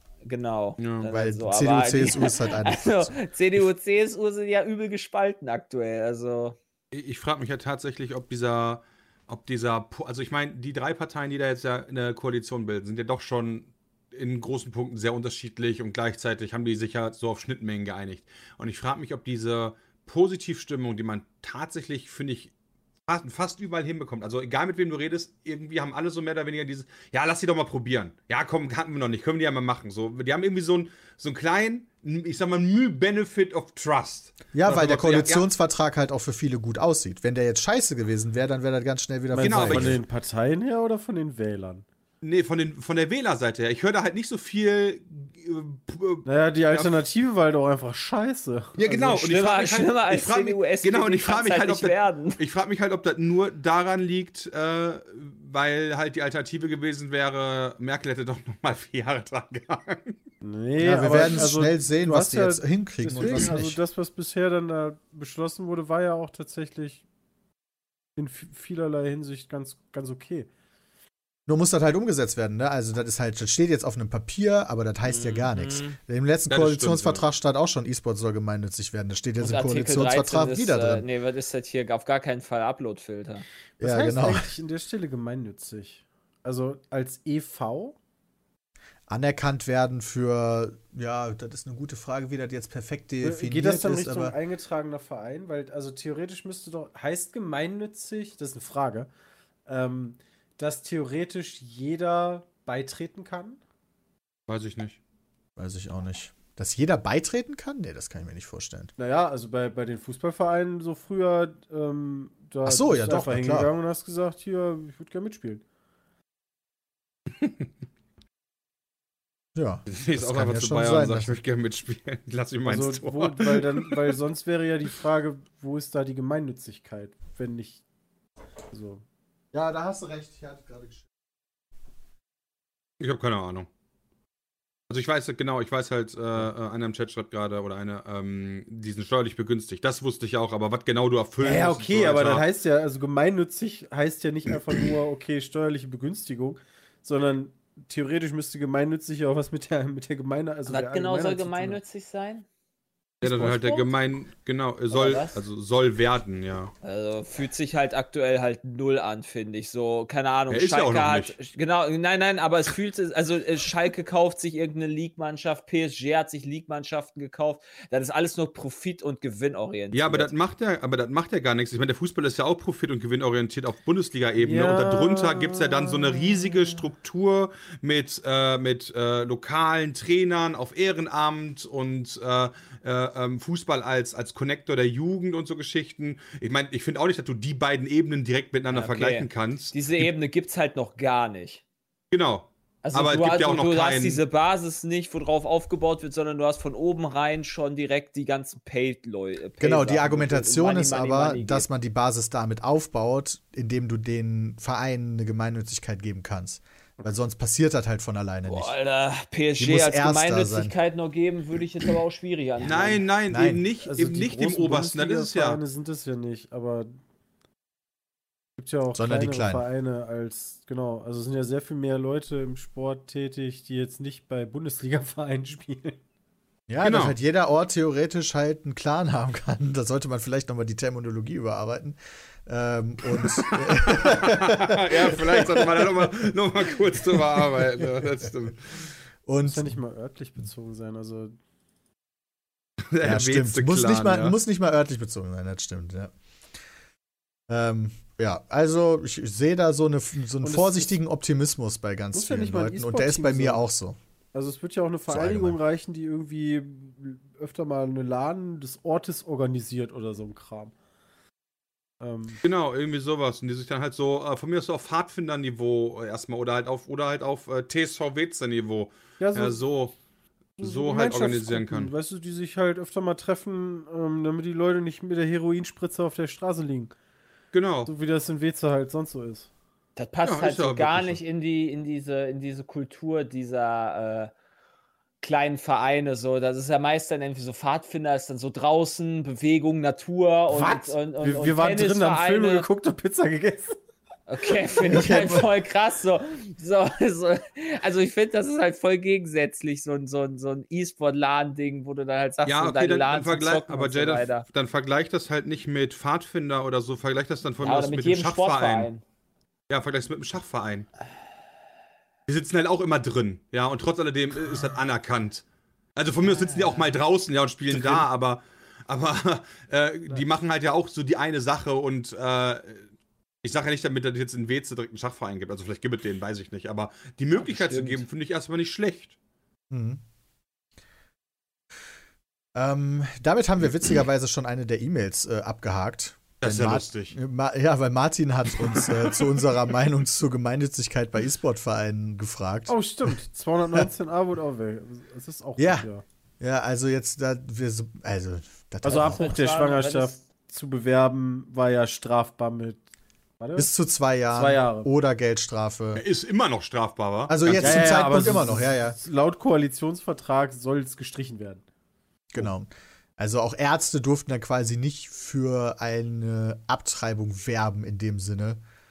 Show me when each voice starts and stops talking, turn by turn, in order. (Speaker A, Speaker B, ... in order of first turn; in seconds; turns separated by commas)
Speaker A: 0.2-6.6, Speaker B: 0.8-1.1, Speaker C: 1.1-3.1, Speaker B: 6.9-22.5, Speaker B: 23.1-35.5, Speaker C: 34.5-40.0, Speaker D: 39.3-41.9, Speaker B: 39.4-40.0, Speaker B: 42.2-46.9, Speaker D: 46.2-49.2, Speaker B: 48.8-60.2, Speaker A: 49.1-52.4, Speaker D: 60.4-67.0, Speaker C: 60.8-63.8, Speaker D: 68.2-70.5, Speaker C: 71.5-81.0, Speaker A: 75.1-76.0, Speaker B: 76.5-77.3, Speaker A: 79.4-83.5, Speaker C: 83.8-84.5, Speaker D: 83.8-88.0, Speaker C: 89.1-94.4, Speaker D: 93.2-99.1, Speaker D: 99.7-103.6, Speaker B: 104.5-105.0, Speaker C: 105.6-108.9, Speaker D: 109.0-115.6, Speaker C: 112.7-113.7, Speaker B: 117.4-117.7, Speaker C: 119.6-121.4, Speaker B: 119.9-124.2, Speaker D: 122.7-127.8, Speaker D: 128.7-129.0, Speaker C: 129.5-131.1, Speaker B: 133.0-133.7, Speaker B: 134.9-142.4, Speaker D: 141.4-151.8, Speaker A: 150.7-152.4, Speaker B: 153.2-156.7, Speaker A: 153.2-153.9, Speaker A: 154.9-155.4, Speaker A: 156.8-170.3, Speaker B: 160.5-161.4, Speaker B: 169.9-190.1, Speaker D: 174.4-176.9, Speaker A: 188.7-191.6, Speaker B: 192.1-194.2, Speaker A: 192.8-201.7, Speaker C: 199.6-208.8, Speaker A: 208.5-213.1, Speaker C: 209.6-210.8, Speaker B: 212.6-215.6, Speaker C: 213.3-213.7, Speaker D: 213.8-216.9, Speaker D: 218.6-226.0, Speaker C: 218.9-219.7, Speaker C: 226.7-236.3, Speaker B: 226.8-227.2, Speaker B: 233.2-238.9, Speaker C: 236.9-237.9, Speaker C: 239.3-239.8, Speaker D: 239.4-241.3, Speaker B: 242.9-244.3, Speaker C: 243.0-246.1, Speaker C: 247.5-254.0, Speaker D: 250.4-250.9, Speaker D: 252.1-253.6, Speaker D: 254.3-260.7, Speaker C: 255.1-255.6, Speaker D: 262.0-262.4, Speaker B: 262.4-269.9, Speaker D: 269.2-269.6, Speaker D: 270.6-276.9, Speaker B: 270.6-271.9, Speaker B: 277.5-277.9, Speaker D: 277.9-279.5, Speaker A: 280.0-284.3, Speaker B: 280.2-281.2, Speaker A: 285.2-292.7, Speaker D: 290.5-293.8, Speaker A: 294.3-304.4, Speaker D: 294.8-295.1, Speaker C: 294.9-295.5, Speaker B: 302.4-308.9, Speaker A: 307.6-309.0, Speaker B: 309.7-310.9, Speaker B: 312.3-315.4, Speaker B: 316.0-322.9, Speaker A: 316.5-316.8, Speaker B: 323.4-329.2, Speaker A: 327.4-328.1, Speaker C: 329.7-330.0, Speaker C: 332.6-343.2, Speaker B: 336.4-337.2, Speaker B: 338.8-339.1, Speaker D: 342.7-346.0, Speaker C: 345.6-345.9, Speaker C: 346.4-349.4, Speaker D: 348.8-352.8, Speaker A: 348.9-350.2, Speaker D: 353.4-353.7, Speaker C: 353.6-356.0, Speaker D: 354.3-354.9, Speaker B: 355.9-358.3, Speaker C: 357.3-359.0, Speaker D: 357.6-361.6, Speaker C: 362.3-368.6